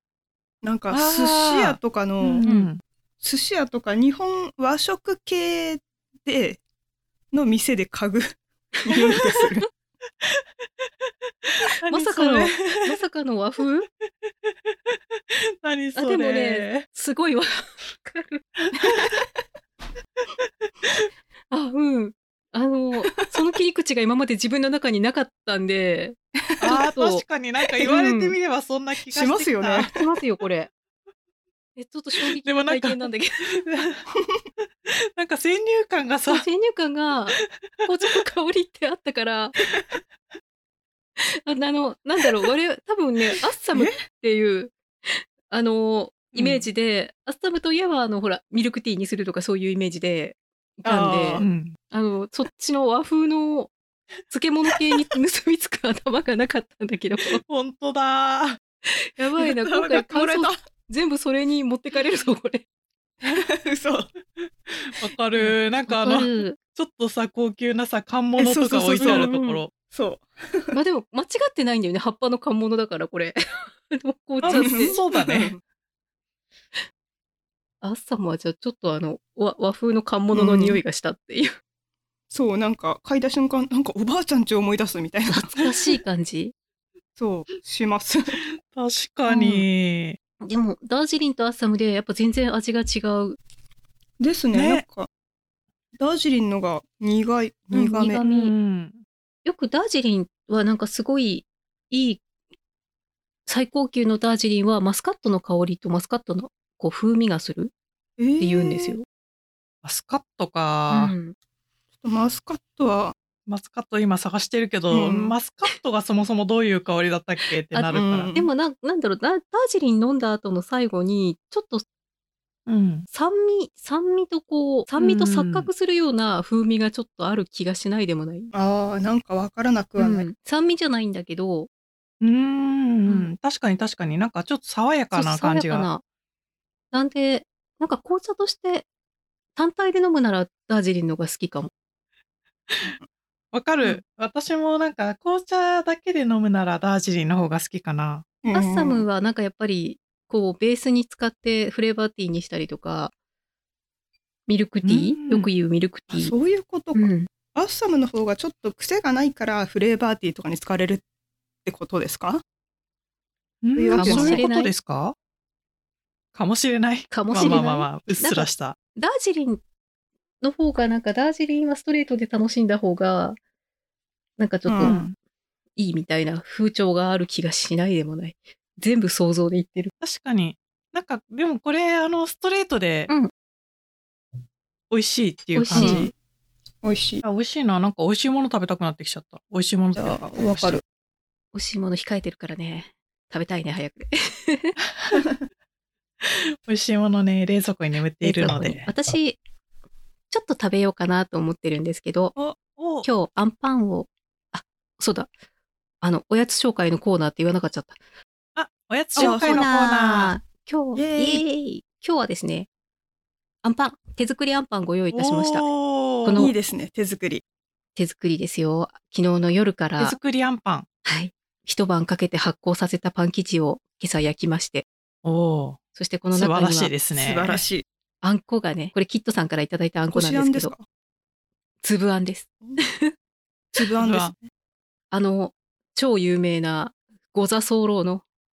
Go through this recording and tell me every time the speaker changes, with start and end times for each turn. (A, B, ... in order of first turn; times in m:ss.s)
0:00.6-0:02.4 A
0:00.9-0:02.8 B
0:03.2-0:06.6 A
0:07.3-0:09.7 A
0:11.5-0:13.0 B
0:11.9-0:13.9 C
0:15.3-0:16.9 B
0:16.0-0:19.1 C
0:21.5-0:27.2 C
0:26.6-0:29.9 B
0:27.8-0:28.4 C
0:29.1-0:30.1 A
0:29.9-0:30.7 C
0:31.8-0:33.6 C
0:32.3-0:34.0 B
0:34.9-0:36.4 B
0:36.3-0:39.6 C
0:41.2-0:53.7 C
0:46.3-0:46.6 B
0:50.8-0:51.5 A
0:51.4-0:51.8 B
0:54.3-0:57.4 C
0:57.4-0:58.6 B
0:58.8-1:02.6 C
0:59.4-1:00.6 A
1:03.2-1:04.1 A
1:04.7-1:09.7 B
1:05.9-1:06.6 C
1:08.4-1:09.3 A
1:09.0-1:09.6 C
1:09.9-1:10.7 A
1:10.7-1:15.0 C
1:14.4-1:15.5 B
1:14.4-1:15.6 A
1:17.8-1:21.6 C
1:20.3-1:20.8 A
1:22.3-1:25.6 A
1:25.3-1:26.5 C
1:27.2-1:28.4 A
1:28.7-1:30.2 B
1:29.3-1:29.7 C
1:30.4-1:33.4 C
1:34.2-1:35.1 A
1:34.5-1:34.8 B
1:36.0-1:38.2 A
1:37.7-1:38.5 C
1:38.2-1:39.0 B
1:39.4-1:42.2 C
1:43.5-1:47.7 C
1:48.2-1:49.0 A
1:48.4-1:49.0 C
1:49.8-1:51.1 B
1:50.9-1:51.4 C
1:52.0-1:53.2 A
1:53.5-1:58.4 B
1:54.9-1:55.4 A
1:54.9-1:55.2 C
1:57.7-2:01.8 C
1:57.9-1:58.5 A
2:02.7-2:03.1 B
2:03.1-2:08.5 C
2:05.0-2:05.7 B
2:08.5-2:10.3 A
2:10.0-2:11.7 C
2:12.2-2:15.9 B
2:15.1-2:16.0 C
2:16.9-2:18.9 C
2:19.6-2:21.7 C
2:23.5-2:28.3 B
2:28.4-2:29.1 A
2:28.5-2:33.1 C
2:34.5-2:36.3 C
2:34.8-2:35.5 B
2:36.1-2:41.0 A
2:37.0-2:37.3 C
2:41.6-2:42.4 A
2:43.6-2:45.2 B
2:43.8-2:44.5 A
2:43.9-2:44.7 C
2:46.4-2:48.8 B
2:47.1-2:49.6 C
2:50.4-2:53.4 C
2:54.4-2:55.0 C
2:54.7-2:55.0 A
2:54.8-2:55.2 B
2:55.8-2:59.9 C
3:00.0-3:03.1 B
3:04.9-3:06.1 B
3:05.6-3:06.1 C
3:05.7-3:06.1 A
3:06.8-3:07.2 A
3:07.2-3:10.8 B
3:10.0-3:10.8 A
3:11.5-3:14.8 C
3:14.8-3:15.2 B
3:16.2-3:18.9 B
3:18.2-3:19.4 C
3:20.3-3:22.4 C
3:22.8-3:23.1 B
3:23.0-3:25.3 C
3:26.0-3:28.0 C
3:28.6-3:30.3 B
3:29.2-3:29.7 A
3:29.2-3:32.7 C
3:31.0-3:31.4 A
3:33.6-3:35.7 C
3:35.1-3:36.4 B
3:36.2-3:36.5 C
3:36.3-3:37.4 A
3:38.0-3:40.2 C
3:40.0-3:40.9 B
3:41.0-3:44.8 C
3:45.2-3:45.8 B
3:46.0-3:46.9 C
3:46.3-3:47.6 B
3:47.1-3:47.8 A
3:48.2-3:50.7 C
3:50.1-3:50.8 A
3:51.8-3:53.1 C
3:53.7-3:54.4 A
3:54.0-3:54.3 B
3:55.1-3:58.2 C